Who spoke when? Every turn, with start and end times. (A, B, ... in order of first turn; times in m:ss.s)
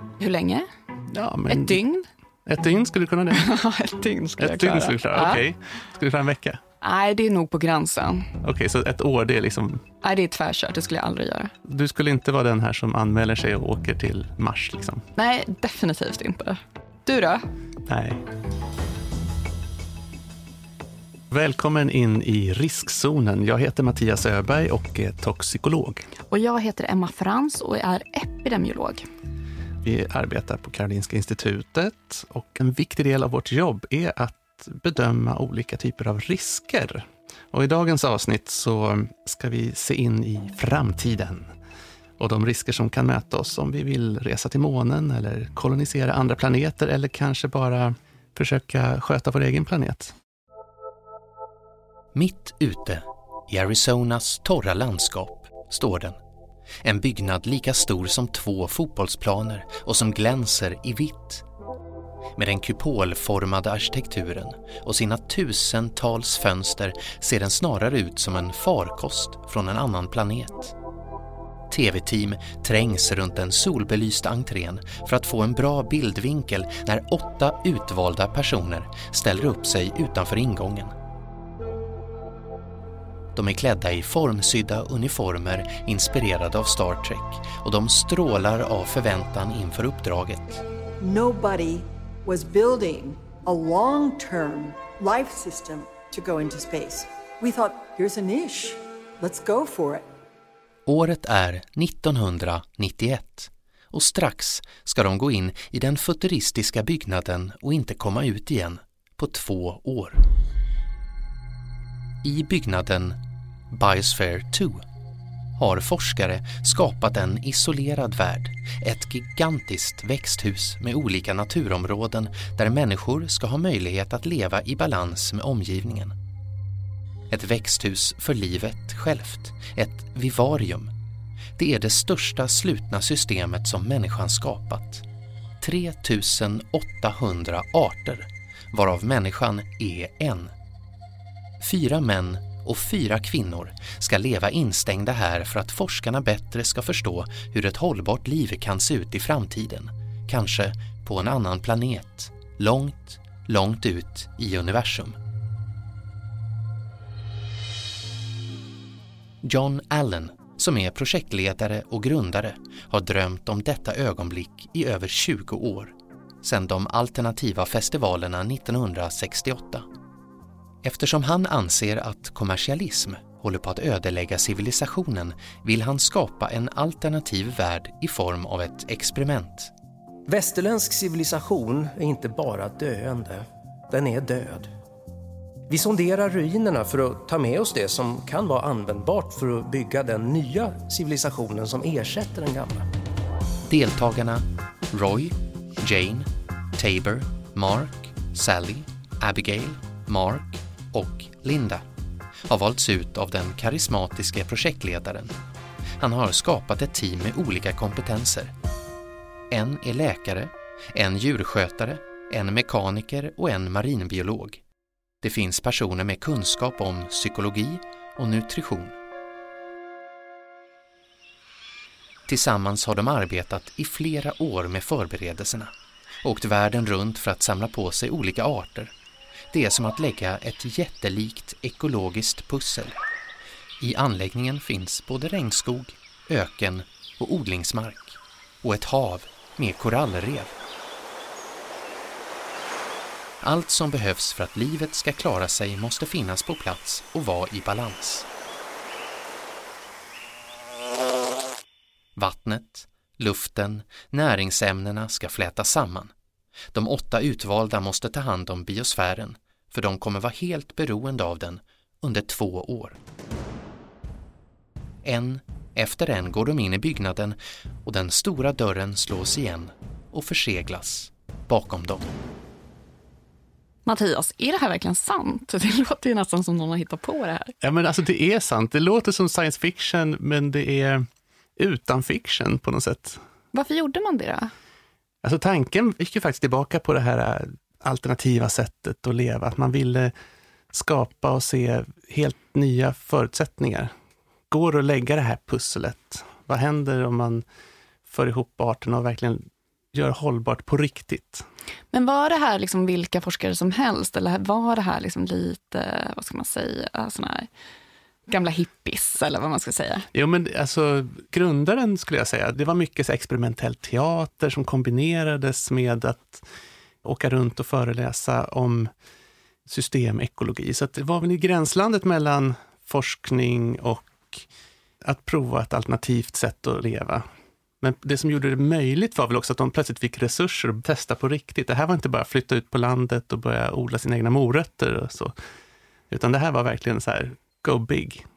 0:00.2-0:00.7 A
0:01.1-0:01.8 B
0:01.5-0:02.1 A
0:02.4-0:03.4 B
0:03.3-0:05.4 A
0:04.4-0:06.6 B
0:06.8-0:08.3 A
0:08.4-0:09.8 B
0:10.0-0:11.5 A
0:11.6-0:15.0 B
0:15.2-0:17.4 A
0:17.9-0:18.2 B
0:21.3-0:26.1 B
0:26.3-0:29.0 A
0:29.8-0:41.5 B
0:42.2-0:50.1 B
0:52.1-0:56.2 C
0:56.8-1:01.4 C
1:02.4-1:10.7 C
1:11.7-1:20.9 C
1:23.3-1:30.6 C
1:31.0-1:40.0 D
1:40.8-1:50.2 C
1:52.2-1:53.2 C
1:53.7-1:54.8 C
1:55.6-2:06.1 C
2:07.3-2:10.9 C
2:11.6-2:15.0 C
2:15.6-2:20.5 C
2:21.6-2:35.2 C
2:39.4-2:49.9 C
2:50.8-2:59.7 C
3:00.3-3:04.7 E
3:05.7-3:12.9 E
3:13.6-3:21.8 C
3:22.5-3:25.3 C
3:26.0-3:28.5 C
3:29.5-3:34.6 C
3:35.2-3:39.0 C
3:42.3-3:48.9 C
3:49.5-3:53.0 C
3:53.8-4:00.6 C
4:03.4-4:08.3 C
4:12.2-4:16.1 C
4:16.7-4:23.0 C
4:25.0-4:32.1 C
4:33.8-4:37.5 A
4:37.6-4:41.0 B
4:41.6-4:43.2 B
4:43.5-4:44.5 A
4:45.2-4:50.1 B
4:50.7-4:53.9 B
4:54.5-4:57.4 B
4:58.1-5:01.4 B
5:01.9-5:07.5 A
5:08.3-5:10.0 A
5:10.1-5:16.4 B
5:17.0-5:18.9 B
5:19.6-5:24.4 B
5:25.0-5:27.2 B
5:27.8-5:35.3 B
5:36.1-5:38.2 B